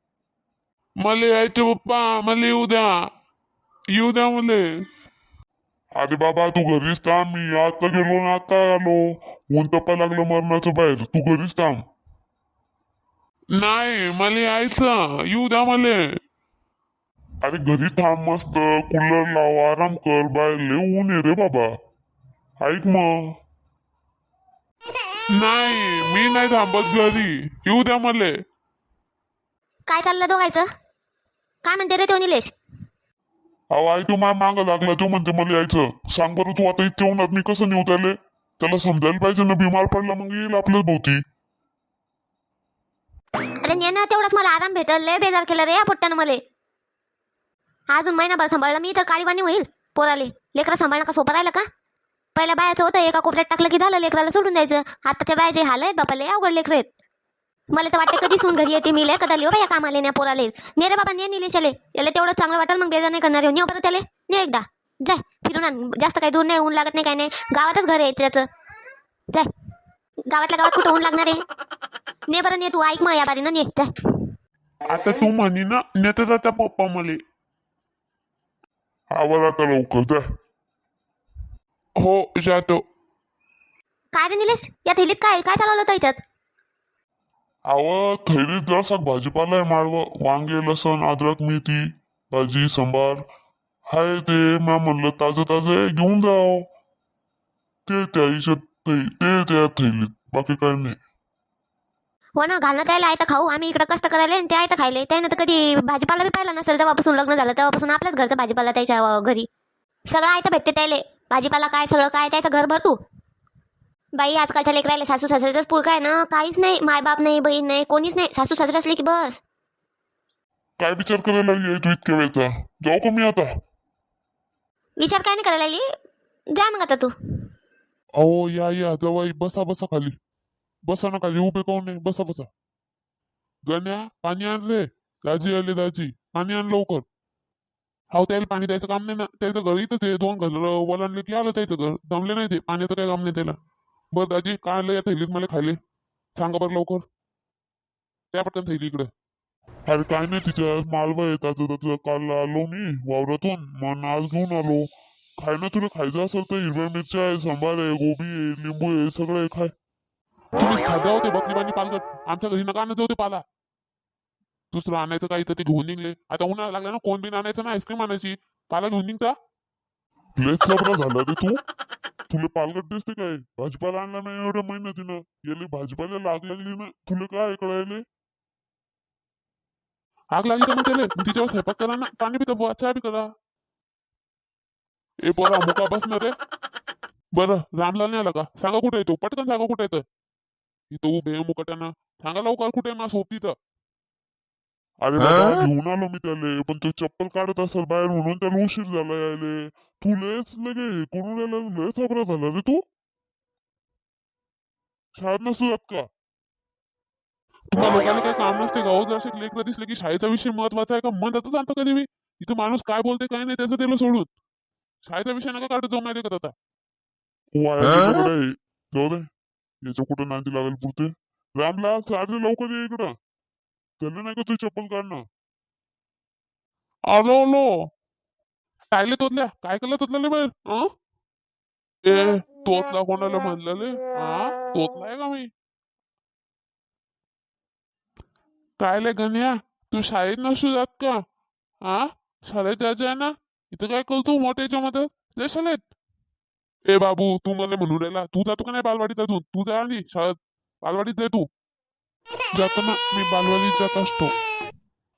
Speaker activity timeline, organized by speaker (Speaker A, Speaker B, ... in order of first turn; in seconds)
Speaker A: 1.0-2.9, 3.9-4.6, 13.5-16.0, 25.3-28.4, 74.9-77.2, 82.0-82.8, 128.2-130.2, 130.8-132.5, 133.7-137.0, 138.1-143.6, 144.1-145.8, 146.3-147.0, 148.3-149.1, 160.6-163.4, 164.7-169.3, 180.3-183.3, 185.2-186.3, 187.3-190.0, 190.9-193.6, 207.7-214.3, 215.0-216.5, 227.1-227.9, 228.9-230.9, 232.0-235.5, 238.8-241.2, 241.8-245.8, 246.9-251.5, 252.5-254.3
Speaker B: 6.0-11.8, 17.4-21.8, 22.6-23.3, 33.7-41.2, 79.1-80.2, 87.7-93.2, 93.9-96.7, 97.8-101.0, 120.8-123.5, 149.8-159.7, 170.4-171.6, 172.3-178.0, 195.0-202.8, 205.2-206.1, 217.5-219.3, 219.8-223.2, 224.0-225.2
Speaker C: 29.9-30.7, 31.6-32.5, 43.6-46.4, 47.9-51.6, 52.4-56.9, 57.7-68.5, 70.3-71.4, 72.3-74.3, 84.1-86.2, 102.3-109.5, 110.1-113.0, 114.1-119.4, 125.0-125.9, 126.5-127.1